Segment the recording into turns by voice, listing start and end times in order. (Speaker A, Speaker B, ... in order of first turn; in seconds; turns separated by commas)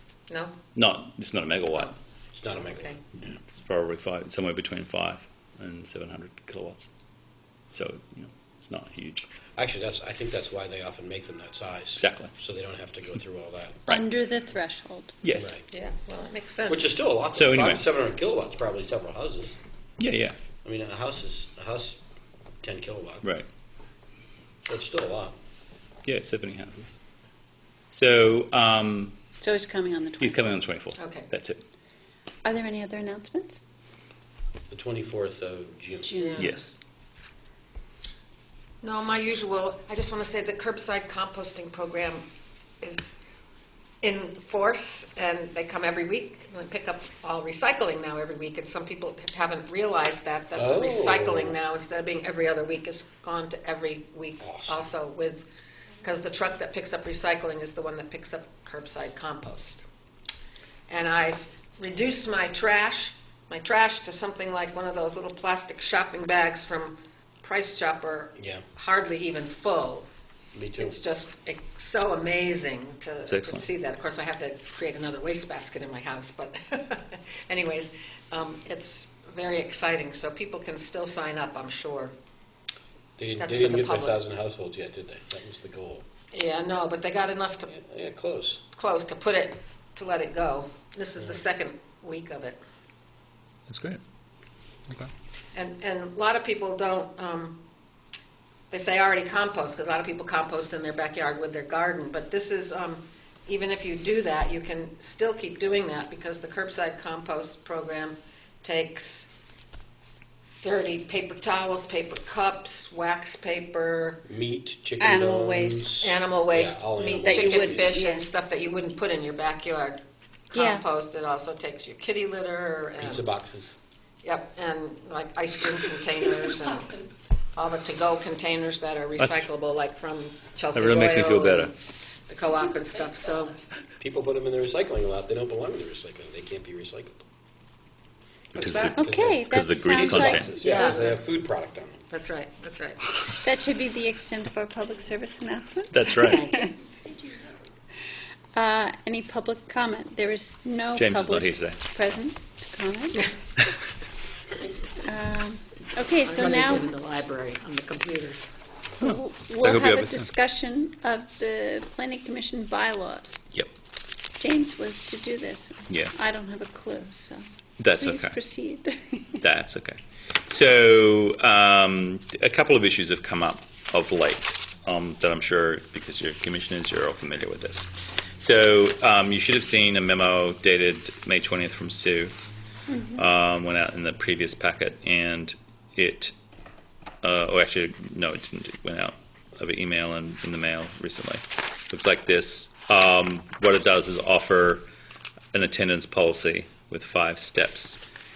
Speaker A: 0.3-0.5, Speaker B: 0.8-1.9, Speaker C: 2.3-3.3, Speaker B: 3.3-6.9, Speaker B: 7.7-9.3, Speaker C: 9.6-13.8, Speaker B: 12.0-12.3, Speaker D: 13.9-15.2, Speaker B: 15.2-15.5, Speaker C: 15.3-15.6, Speaker A: 15.7-16.9, Speaker C: 16.7-19.6, Speaker B: 17.3-17.8, Speaker B: 20.0-20.4, Speaker C: 20.6-22.0, Speaker C: 22.6-23.3, Speaker C: 24.7-25.4, Speaker B: 26.1-27.0, Speaker B: 27.9-29.2, Speaker D: 29.4-30.5, Speaker B: 30.2-31.6, Speaker A: 31.0-31.3, Speaker D: 32.5-33.6, Speaker C: 34.7-36.1, Speaker D: 36.0-36.6, Speaker A: 36.1-36.6, Speaker B: 36.4-36.8, Speaker A: 38.8-42.2, Speaker A: 42.8-43.1, Speaker A: 44.0-55.5, Speaker C: 50.5-51.6, Speaker C: 54.4-54.9, Speaker A: 56.0-59.8, Speaker A: 60.9-70.1, Speaker C: 68.4-68.6, Speaker C: 70.5-71.0, Speaker A: 70.8-82.1, Speaker B: 73.3-73.7, Speaker C: 83.2-86.1, Speaker A: 83.4-84.2, Speaker A: 86.3-87.7, Speaker C: 87.7-88.6, Speaker A: 88.8-92.6, Speaker B: 93.7-94.0, Speaker A: 95.5-97.6, Speaker A: 98.7-109.3, Speaker A: 110.6-114.2, Speaker C: 114.3-118.0, Speaker D: 115.0-115.9, Speaker A: 116.0-123.3, Speaker D: 117.2-118.3, Speaker D: 120.5-120.8, Speaker C: 123.0-123.8, Speaker A: 124.2-131.8, Speaker B: 129.2-129.4, Speaker B: 130.7-131.7, Speaker A: 132.3-133.6, Speaker C: 134.0-137.2, Speaker B: 138.5-140.6, Speaker C: 138.6-142.1, Speaker A: 138.6-138.9, Speaker D: 139.0-141.0, Speaker A: 140.6-141.2, Speaker A: 142.1-143.1, Speaker D: 143.4-146.8, Speaker B: 145.9-146.5, Speaker A: 146.2-146.7, Speaker D: 148.5-153.3, Speaker B: 151.0-151.9, Speaker D: 155.0-156.9, Speaker A: 156.3-158.5, Speaker D: 159.0-163.4, Speaker B: 159.0-160.3, Speaker D: 164.4-169.4, Speaker B: 165.9-166.2, Speaker B: 167.8-168.4, Speaker B: 169.4-182.3, Speaker D: 182.9-183.3, Speaker B: 183.2-186.3, Speaker B: 187.2-194.9, Speaker B: 195.5-198.0